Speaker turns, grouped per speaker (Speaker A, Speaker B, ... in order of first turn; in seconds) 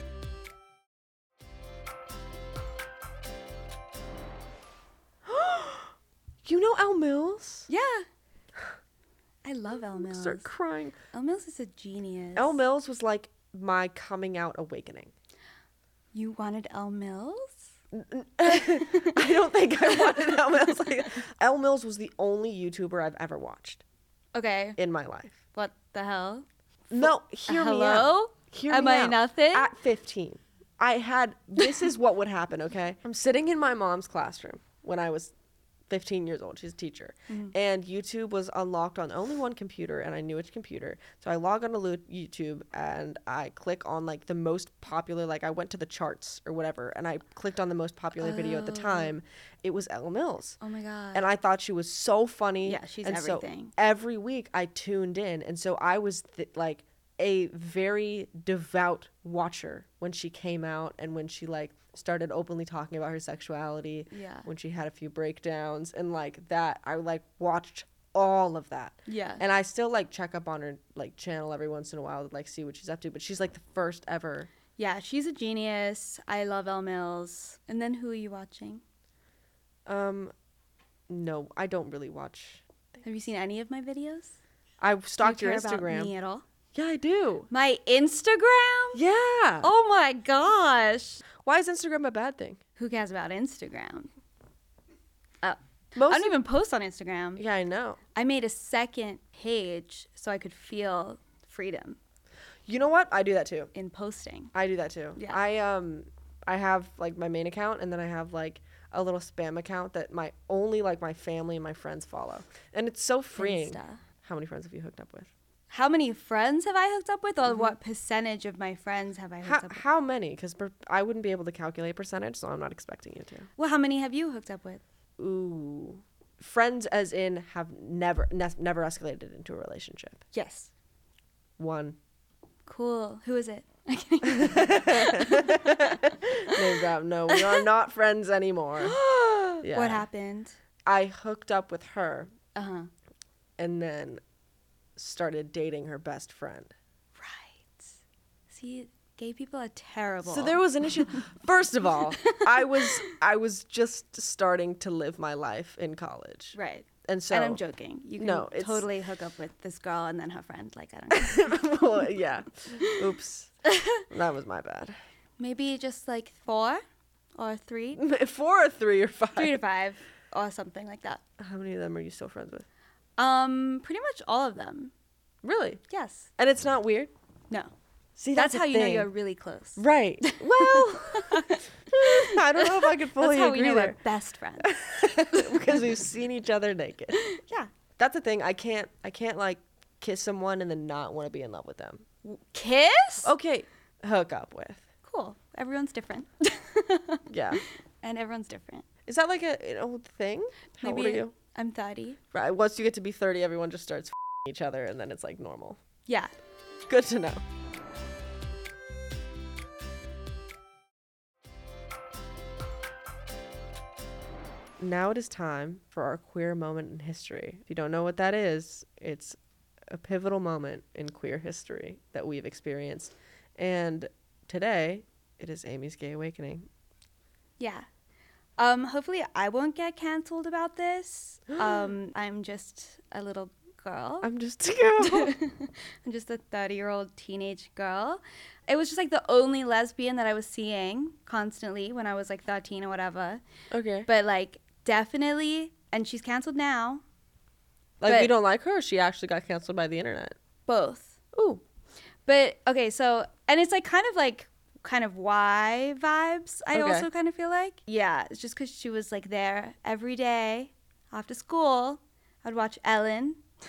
Speaker A: 5.2-7.7, 10.0-11.0, 12.4-15.1, 17.9-23.8, 24.8-25.4, 26.9-35.3, 35.9-50.6, 51.1-74.5, 79.9-80.3, 81.1-83.0, 84.8-86.1, 86.7-87.5, 88.9-89.7, 91.4-92.6, 96.0-96.4, 97.4-98.0, 102.7-103.7, 104.5-115.3, 117.5-117.7, 119.4-123.5, 125.2-130.2, 131.6-132.0, 134.2-138.9, 139.6-140.1, 140.8-142.3, 143.6-144.2, 145.0-146.7, 150.2-157.6, 158.2-158.9, 161.1-163.5, 164.1-165.0, 168.0-169.6, 171.4-172.7, 175.4-175.8, 176.4-177.1, 178.2-179.1, 179.8-184.0, 184.6-187.3, 188.0-192.1, 193.2-194.8, 197.3-197.6, 199.1-201.3, 202.3-205.8, 206.9-207.4, 214.8-219.4, 219.9-226.7, 234.2-235.3, 243.7-244.1, 248.0-250.3, 251.3-251.6, 256.7-257.1
Speaker B: 7.7-8.1, 9.4-10.5, 11.1-12.6, 16.1-17.7, 18.6-19.3, 19.9-20.6, 24.3-24.8, 25.5-29.7, 37.3-37.5, 48.2-49.1, 50.6-51.2, 52.6-53.7, 64.1-64.5, 69.1-69.4, 74.8-78.8, 83.0-84.4, 85.2-86.5, 87.5-89.0, 89.6-91.2, 92.8-94.1, 95.4-97.4, 98.2-102.0, 103.7-104.5, 105.2-105.4, 113.4-114.0, 115.7-119.8, 123.6-124.8, 130.3-130.7, 132.7-135.9, 137.3-137.6, 138.8-140.6, 142.6-142.9, 147.2-147.9, 148.5-150.6, 152.3-153.1, 156.5-161.8, 163.7-164.0, 165.4-166.8, 167.4-168.0, 169.3-171.2, 173.2-174.9, 175.9-176.3, 178.3-184.7, 187.2-187.7, 192.2-193.3, 195.0-198.8, 200.8-202.2, 206.1-206.3, 227.6-227.9, 228.6-234.3, 235.0-243.4, 244.1-247.0, 248.1-248.3, 250.7-251.2, 252.3-263.4